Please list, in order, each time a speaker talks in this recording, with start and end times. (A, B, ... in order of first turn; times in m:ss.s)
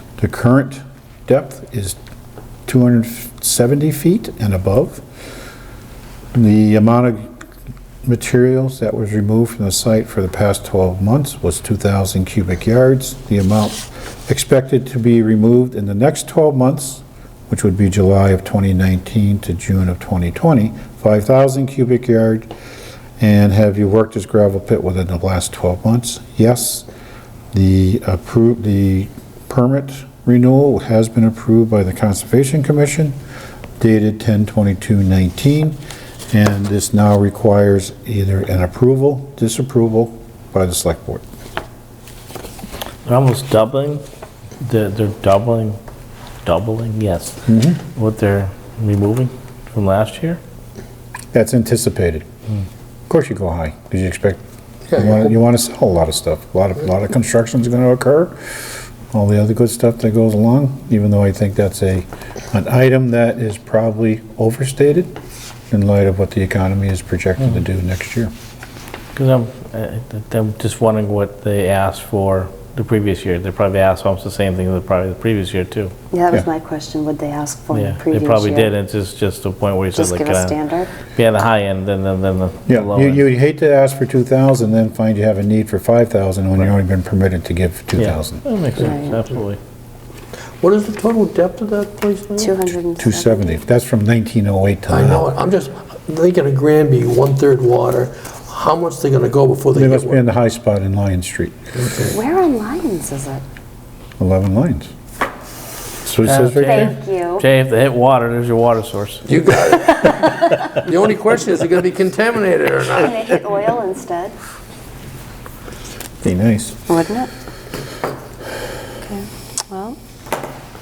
0:00.2-0:02.0 A
0:02.7-0:05.0 A
0:06.3-0:07.2 A
0:08.0-0:22.5 A
0:23.2-0:26.9 A
0:27.5-0:33.2 A
0:33.8-0:35.8 A
0:36.3-0:41.2 A
0:43.0-0:44.0 B
0:44.6-0:45.8 B
0:46.4-0:50.4 B
0:47.5-0:47.8 A
0:51.3-0:52.3 A
0:53.1-0:54.4 A
0:54.9-0:55.3 C
0:54.9-1:05.1 A
1:05.7-1:08.3 A
1:09.1-1:15.9 B
1:16.1-1:18.7 D
1:17.7-1:23.2 B
1:19.9-1:21.0 D
1:22.7-1:28.4 A
1:28.0-1:29.6 B
1:28.8-1:29.2 D
1:30.6-1:32.5 C
1:32.4-1:33.6 D
1:33.0-1:35.3 A
1:34.9-1:40.2 C
1:39.7-1:41.6 A
1:41.7-1:42.2 C
1:42.1-1:43.4 D
1:44.2-1:44.9 A
1:46.0-1:46.9 A
1:46.2-1:49.3 B
1:46.6-1:47.4 D
1:49.2-1:53.2 C
1:53.0-1:54.3 D
1:56.2-1:56.8 A
1:56.9-1:57.3 D
1:59.0-2:00.0 D